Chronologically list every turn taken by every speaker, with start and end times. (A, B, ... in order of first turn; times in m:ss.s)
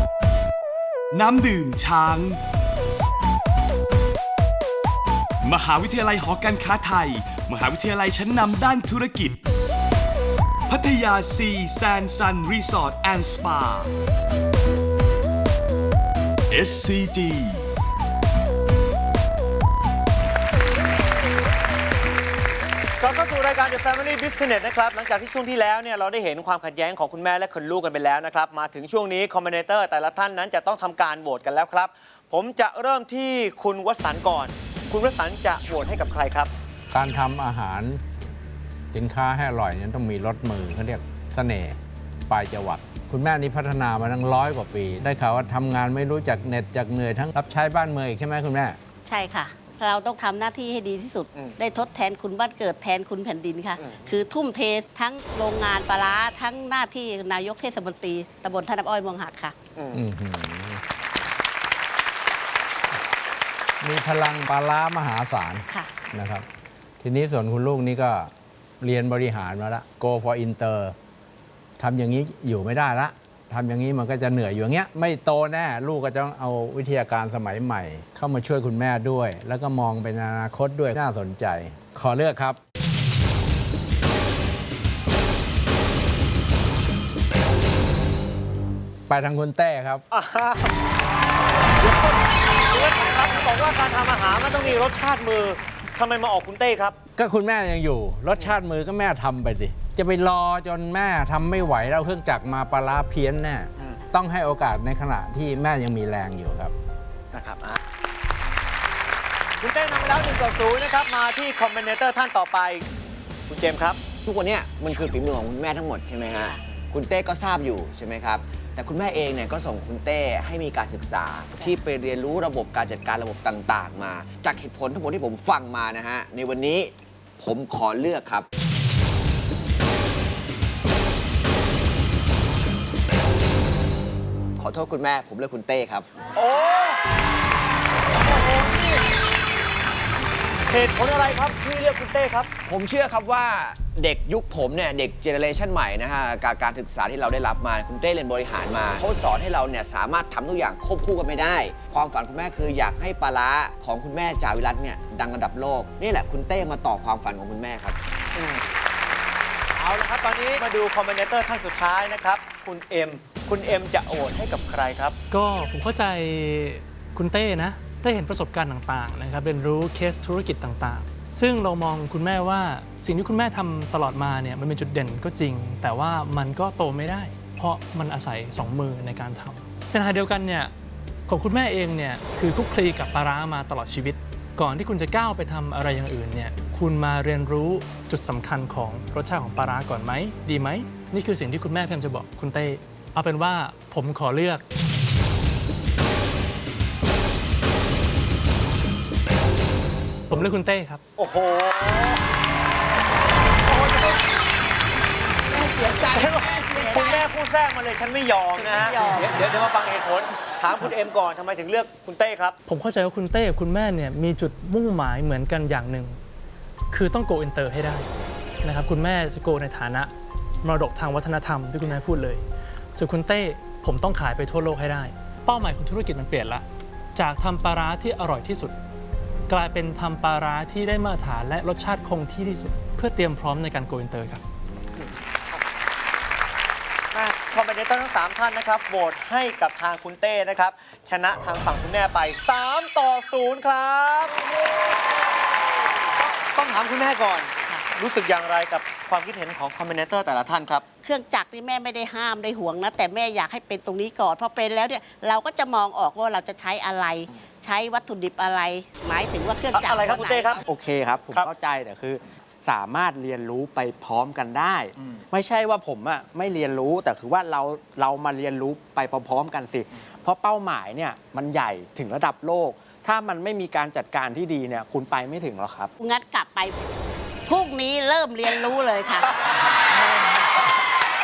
0:01.1-0:02.4 A
0:05.4-0:09.4 A
0:10.7-0:13.9 A
0:16.5-0:17.6 A
0:23.0-0:36.5 B
0:36.9-0:38.0 C
0:38.9-0:41.8 C
0:42.3-0:48.8 C
0:49.0-0:59.5 D
0:53.8-0:54.1 B
0:59.8-1:00.0 B
0:59.9-1:00.8 C
1:03.8-1:06.4 C
1:07.0-1:10.9 C
1:11.8-1:22.6 C
1:29.1-1:30.0 C
1:30.1-1:30.7 B
1:31.7-1:37.0 B
1:37.2-1:46.7 C
1:47.3-1:47.8 B
1:49.6-1:52.8 B
1:53.5-1:54.0 B
1:54.2-2:08.4 E
2:14.6-2:16.1 E
2:16.3-2:17.0 B
2:18.2-2:19.0 B
2:20.7-2:22.5 B
2:22.7-2:38.0 E
2:38.3-2:38.6 B
2:39.8-2:45.1 B
2:45.3-3:00.7 F
3:01.3-3:14.6 F
3:20.3-3:21.0 F
3:21.2-3:22.2 B
3:23.7-3:24.2 B
3:25.5-3:27.2 D
3:26.1-3:32.5 B
3:28.5-3:29.2 D
3:32.7-3:36.2 F
3:36.9-3:38.1 F
3:38.6-3:42.4 F
3:42.9-3:46.6 F
3:47.2-3:48.7 F
3:49.5-3:54.4 F
3:57.1-4:04.4 B
4:06.2-4:10.8 B
4:11.0-4:20.6 D
4:19.7-4:20.6 B
4:20.6-4:35.9 G
4:36.0-4:36.8 D
4:37.5-4:40.6 D